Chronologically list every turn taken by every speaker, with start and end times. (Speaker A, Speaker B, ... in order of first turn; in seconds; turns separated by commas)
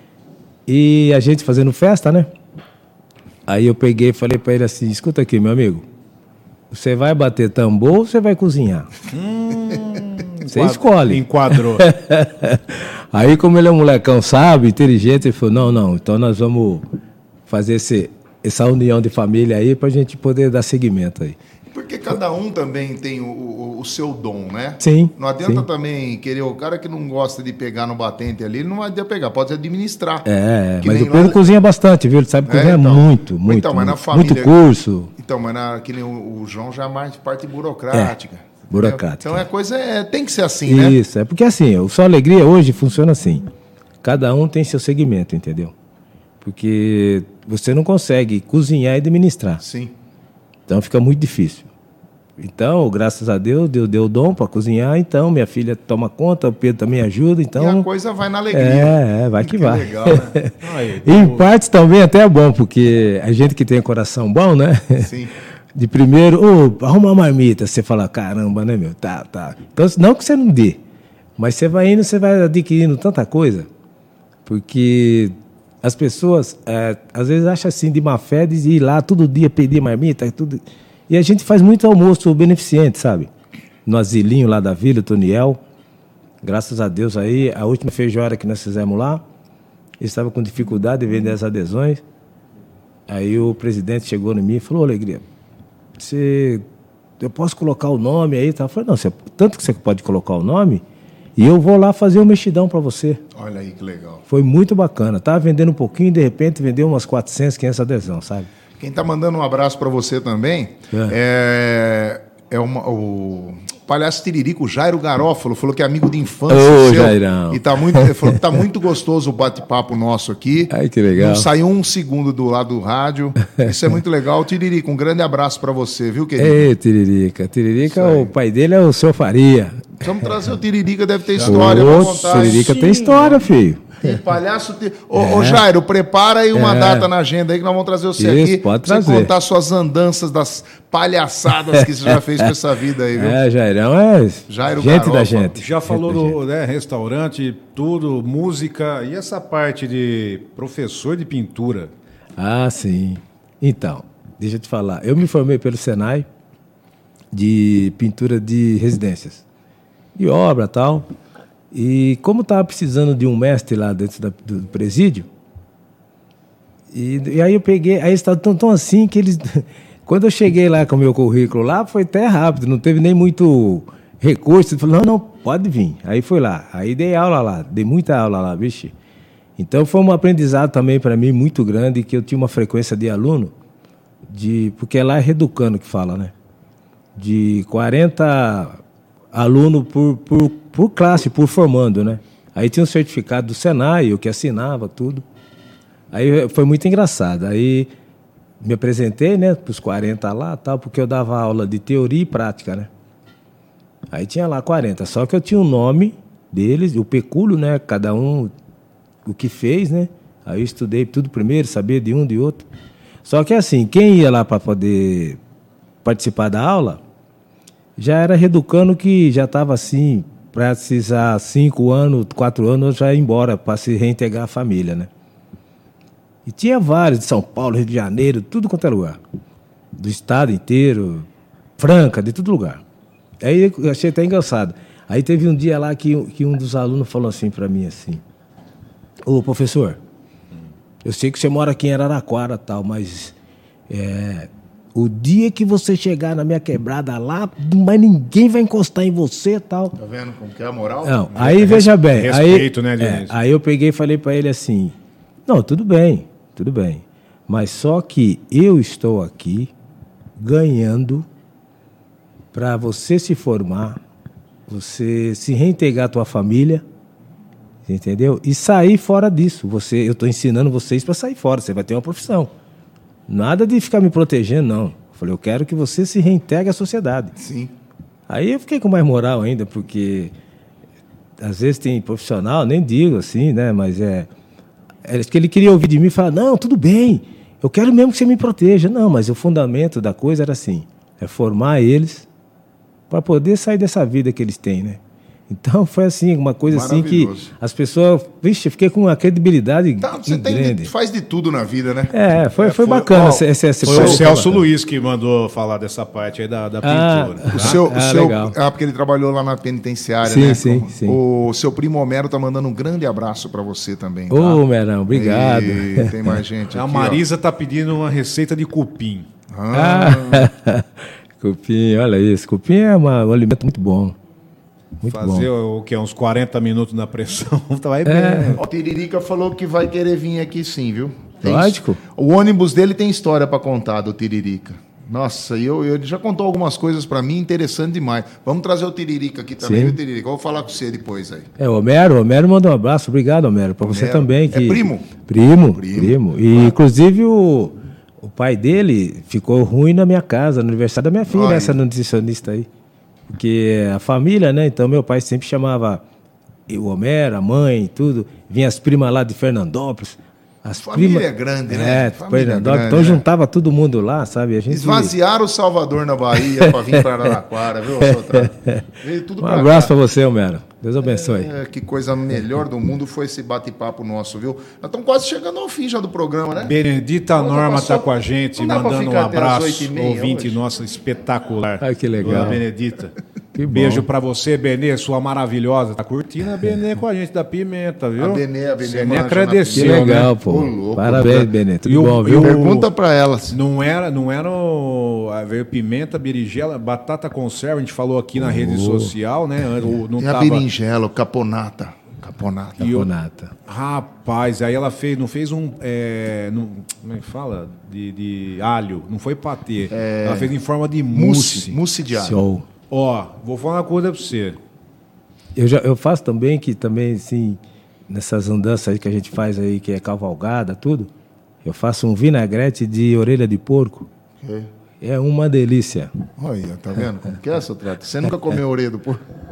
Speaker A: 0.7-2.3, Speaker A: 3.5-5.8, Speaker A: 6.7-8.9, Speaker B: 9.1-11.9, Speaker A: 10.5-16.9, Speaker A: 17.5-21.4, Speaker C: 21.7-30.3, Speaker A: 24.8-25.7, Speaker A: 30.2-35.1, Speaker C: 30.8-31.6, Speaker C: 32.5-34.6, Speaker C: 35.2-41.0, Speaker A: 38.7-39.4, Speaker A: 40.7-43.5, Speaker A: 44.0-45.7, Speaker A: 46.4-49.6, Speaker C: 49.6-49.9, Speaker A: 50.7-51.7, Speaker A: 52.4-57.9, Speaker C: 57.6-60.3, Speaker A: 58.5-65.1, Speaker B: 60.6-61.5, Speaker C: 65.0-65.3, Speaker A: 65.8-70.8, Speaker A: 71.4-73.7, Speaker A: 74.5-83.3, Speaker A: 83.9-85.6, Speaker A: 86.4-89.2, Speaker A: 90.0-92.0, Speaker A: 93.1-95.2, Speaker A: 96.0-96.6, Speaker A: 97.2-100.8, Speaker A: 101.4-103.2, Speaker C: 103.3-104.2, Speaker A: 104.3-108.5, Speaker C: 108.8-126.7, Speaker A: 116.5-118.4, Speaker A: 120.7-121.5, Speaker A: 126.4-130.0, Speaker C: 127.8-128.3, Speaker C: 130.0-133.4, Speaker A: 131.4-134.2, Speaker B: 132.3-133.2, Speaker C: 134.0-143.4, Speaker A: 135.2-135.6, Speaker A: 136.5-137.1, Speaker A: 138.2-139.3, Speaker A: 141.7-142.5, Speaker A: 143.2-146.4, Speaker C: 144.5-145.6, Speaker B: 145.6-151.9, Speaker A: 152.4-156.3, Speaker A: 157.3-159.4, Speaker A: 160.2-161.1, Speaker A: 161.7-165.3, Speaker A: 166.9-178.9, Speaker A: 179.6-183.5, Speaker A: 184.3-186.3, Speaker A: 187.2-188.8, Speaker A: 189.3-195.2, Speaker A: 196.1-197.9, Speaker A: 198.6-202.9, Speaker A: 204.1-208.5, Speaker A: 209.2-212.7, Speaker A: 213.2-215.4, Speaker A: 216.1-217.0, Speaker A: 218.0-225.1, Speaker A: 226.5-229.2, Speaker A: 230.0-231.3, Speaker A: 231.8-232.8, Speaker A: 233.4-238.2, Speaker A: 239.2-240.0, Speaker A: 241.0-243.3, Speaker A: 243.9-249.9, Speaker C: 250.0-251.8, Speaker A: 251.1-254.9, Speaker B: 251.4-253.4, Speaker A: 255.5-259.7, Speaker A: 260.4-261.3, Speaker A: 262.5-264.0, Speaker A: 264.7-266.8, Speaker A: 267.9-272.5, Speaker A: 273.3-277.3, Speaker C: 277.4-277.7, Speaker A: 278.3-280.3, Speaker A: 281.4-284.3, Speaker A: 285.0-292.3, Speaker A: 293.1-300.9, Speaker C: 296.7-297.5, Speaker C: 300.0-302.1, Speaker A: 302.1-304.7, Speaker B: 302.6-307.8, Speaker C: 302.9-304.2, Speaker A: 306.8-308.6, Speaker C: 307.5-317.2, Speaker A: 310.3-311.2, Speaker A: 314.3-316.4, Speaker B: 316.7-319.3, Speaker C: 319.5-320.5, Speaker A: 319.7-324.2, Speaker A: 325.0-325.5, Speaker B: 325.1-328.6, Speaker A: 328.1-328.6, Speaker C: 328.6-341.5, Speaker A: 331.4-332.0, Speaker A: 339.6-340.0, Speaker A: 341.6-352.7, Speaker C: 343.8-345.1, Speaker C: 345.7-346.8, Speaker C: 351.3-351.8, Speaker A: 353.3-356.0, Speaker A: 356.7-365.1, Speaker C: 360.8-363.2, Speaker C: 364.7-369.9, Speaker A: 366.6-367.3, Speaker A: 368.0-368.9, Speaker A: 369.4-371.5, Speaker C: 371.0-376.8, Speaker B: 376.6-383.1, Speaker C: 377.3-380.6, Speaker A: 381.8-382.6, Speaker A: 383.6-384.1, Speaker B: 383.7-390.3, Speaker C: 388.2-391.5, Speaker A: 389.7-392.6, Speaker B: 391.9-392.9, Speaker C: 392.3-393.6, Speaker B: 393.5-400.6, Speaker A: 398.4-399.1, Speaker C: 400.2-403.0, Speaker B: 402.8-403.1, Speaker A: 402.8-403.5, Speaker B: 403.7-411.8, Speaker C: 409.9-410.5, Speaker C: 411.1-412.4, Speaker A: 412.1-412.7, Speaker B: 412.9-414.6, Speaker A: 415.6-421.1, Speaker A: 421.6-424.1, Speaker C: 424.4-424.7, Speaker A: 425.0-426.1, Speaker C: 426.4-429.2